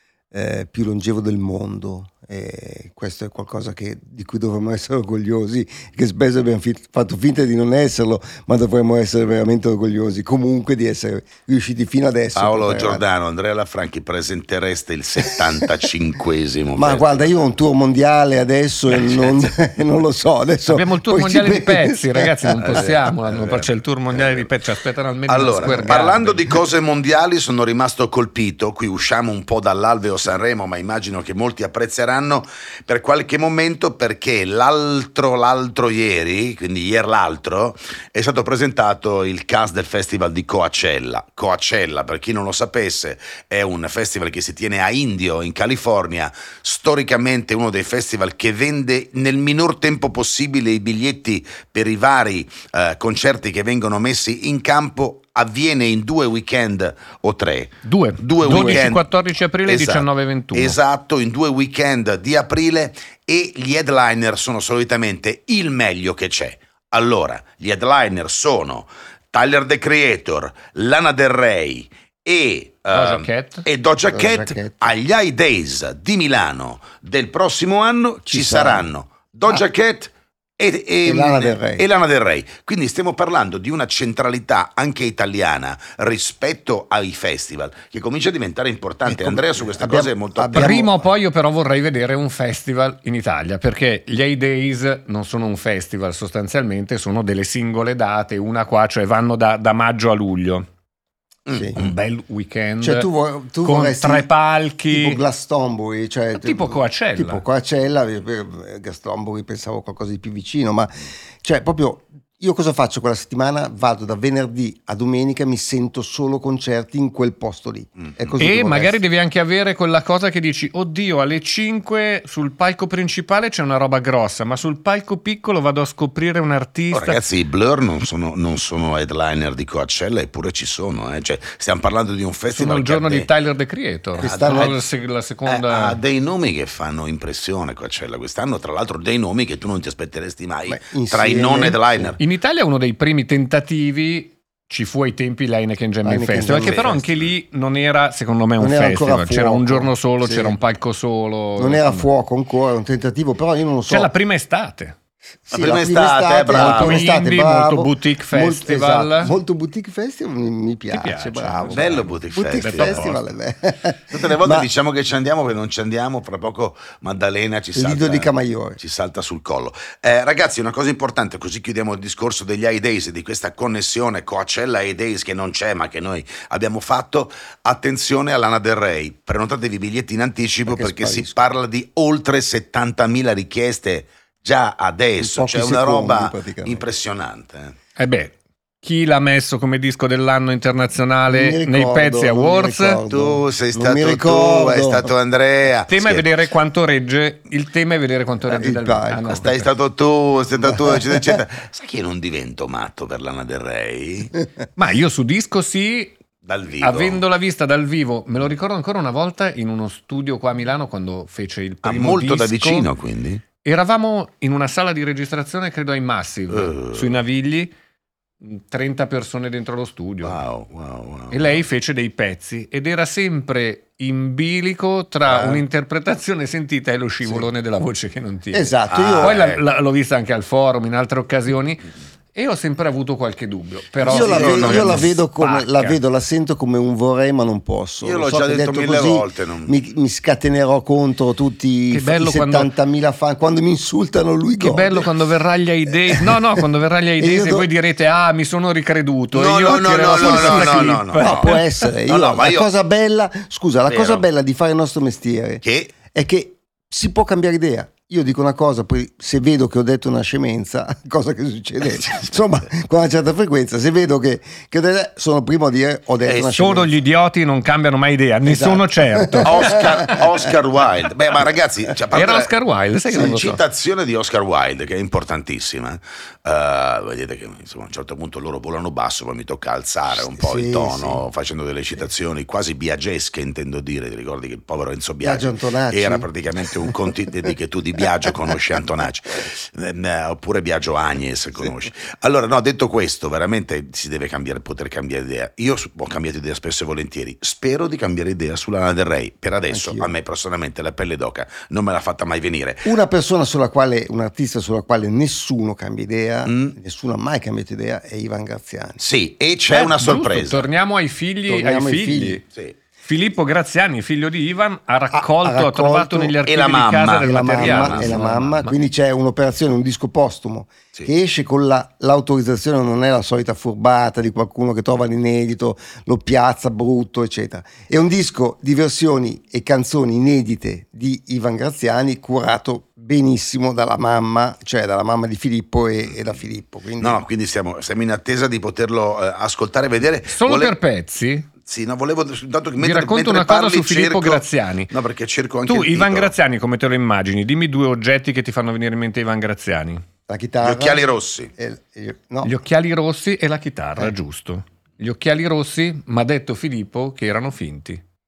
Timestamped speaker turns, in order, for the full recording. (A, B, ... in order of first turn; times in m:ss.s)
0:00.3-0:13.0 A
0:12.3-0:17.3 B
0:16.8-0:23.0 A
0:18.9-0:19.4 B
0:20.7-0:26.5 C
0:22.6-0:24.5 B
0:25.3-0:59.1 B
0:25.5-0:25.9 A
0:57.8-1:00.8 C
0:59.7-1:30.8 B
1:12.9-1:13.7 C
1:14.1-1:14.9 A
1:18.3-1:18.9 A
1:21.0-1:21.9 A
1:29.0-1:31.0 A
1:30.5-1:40.6 C
1:41.5-1:42.0 B
1:41.7-1:43.1 C
1:42.8-1:44.3 A
1:43.6-1:45.2 C
1:44.9-1:59.0 A
1:46.3-1:47.4 C
1:58.4-2:07.2 C
2:06.9-2:13.3 B
2:12.5-2:16.0 C
2:14.2-2:14.8 B
2:14.2-2:14.8 A
2:15.5-2:22.2 B
2:20.7-2:22.1 A
2:22.2-2:32.1 C
2:26.0-2:27.1 A
2:26.4-2:27.3 B
2:28.6-2:30.6 A
2:31.6-2:34.1 A
2:33.9-2:34.9 C
2:35.5-2:44.7 A
2:35.5-2:37.1 B
2:36.5-2:39.4 C
2:40.9-2:43.2 C
2:41.7-2:43.2 B
2:44.1-3:07.8 B
2:47.8-2:48.8 A
3:00.7-3:01.4 A
3:05.2-3:06.9 A
3:08.0-3:13.0 C
3:11.3-3:15.1 A
3:13.1-3:16.3 B
3:15.9-3:19.7 C
3:18.4-3:19.4 A
3:19.3-3:24.4 B
3:20.6-3:21.4 A
3:24.8-3:26.2 C
3:26.4-3:27.2 B
3:26.8-3:32.9 C
3:31.8-3:33.4 B
3:33.6-3:37.7 C
3:36.5-3:37.1 B
3:38.4-3:40.4 C
3:40.2-3:41.6 B
3:41.3-3:51.8 C
3:45.3-3:45.6 A
3:47.2-3:47.5 A
3:48.5-3:49.4 A
3:48.8-3:49.6 B
3:52.4-3:56.0 C
3:54.0-3:55.2 B
3:54.1-4:05.1 A
3:58.0-3:59.8 B
4:01.9-4:02.7 C
4:04.6-4:11.9 C
4:06.1-4:06.4 A
4:07.2-4:07.7 A
4:09.3-4:12.7 B
4:09.7-4:26.9 A
4:13.9-4:14.3 B
4:15.6-4:15.9 B
4:26.2-4:26.5 B
4:26.5-4:30.2 C
4:28.5-4:30.4 A
4:29.4-4:32.5 B
4:32.1-4:33.6 C
4:33.1-5:02.9 B
4:40.1-4:41.2 A
4:45.2-4:46.3 A
4:59.7-5:00.1 A
5:02.8-5:09.0 A
5:06.5-5:06.8 B
5:09.0-5:10.6 B
5:09.7-5:12.4 C
5:11.5-5:12.4 A
5:13.0-5:18.7 C
5:15.1-5:16.4 A
5:16.4-5:18.2 B
5:17.2-5:37.2 A
5:36.0-5:36.4 B
5:37.0-5:40.8 B
5:40.3-5:41.5 C
5:41.6-5:46.3 B
5:42.8-5:44.9 C
5:45.7-5:50.0 C
5:50.3-5:51.1 A
5:50.6-5:51.5 B
5:51.6-5:52.5 A
5:52.4-5:58.0 C